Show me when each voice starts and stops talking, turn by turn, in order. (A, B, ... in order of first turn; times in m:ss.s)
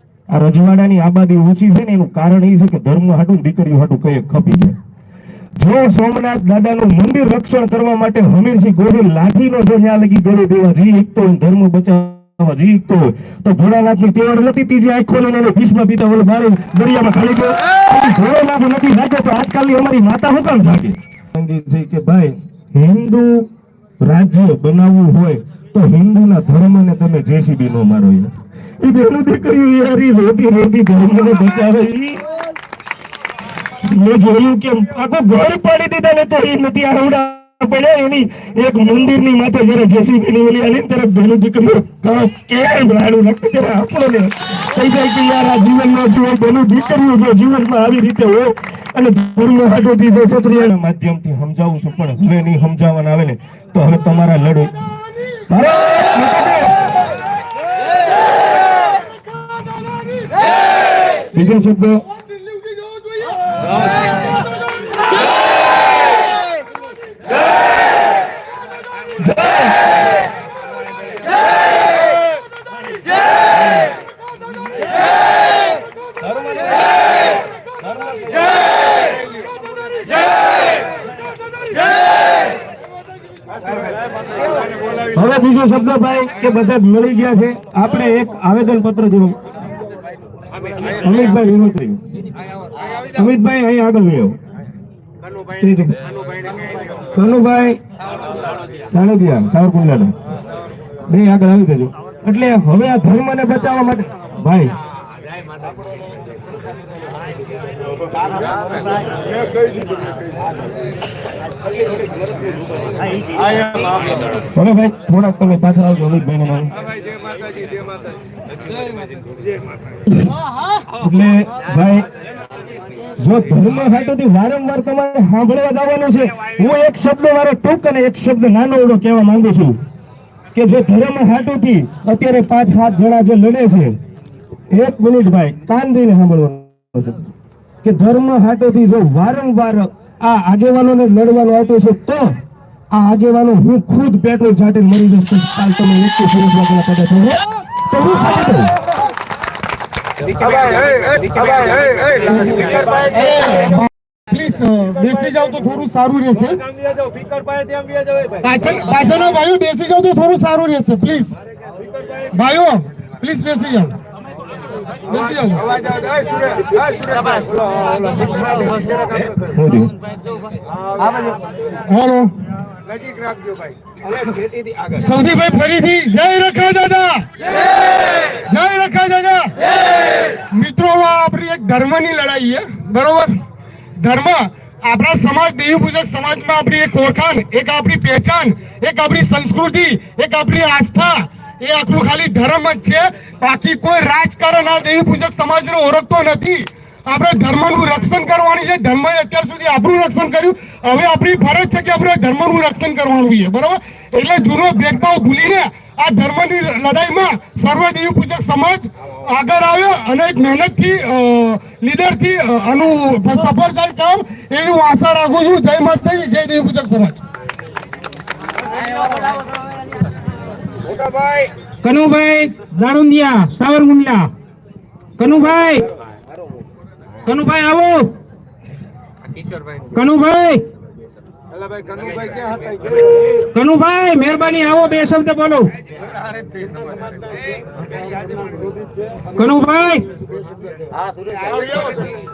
0:00.3-0:04.8 A
0:05.6-0:23.5 A
0:24.0-0:32.2 A
0:33.8-0:54.7 A
0:55.5-0:56.7 A
1:01.3-1:02.0 A
1:25.1-1:29.4 A
1:31.0-1:32.0 A
1:33.1-1:34.4 A
1:35.6-1:36.0 A
1:37.2-1:37.8 A
1:38.9-1:40.1 A
1:41.1-1:44.7 A
1:54.6-1:56.7 A
2:01.0-2:02.1 A
2:03.2-2:09.8 A
2:10.5-2:14.0 A
2:14.7-2:17.3 A
2:17.8-2:22.3 A
2:22.9-2:28.7 A
2:31.3-2:33.0 A
2:33.2-2:33.8 B
2:34.3-2:36.6 B
2:37.1-2:38.2 A
2:38.4-2:41.4 B
2:42.3-2:44.0 B
2:45.1-2:45.7 B
2:49.4-2:49.9 A
2:51.9-2:52.3 B
2:54.3-2:54.9 A
2:55.0-2:57.3 B
2:58.5-2:59.5 B
3:00.5-3:03.3 B
3:04.0-3:37.2 B
3:40.9-3:41.4 A
3:41.8-3:44.3 C
3:45.2-3:45.9 C
3:47.3-3:48.1 C
3:50.0-3:50.6 C
3:53.5-3:55.7 C
3:59.4-4:00.1 C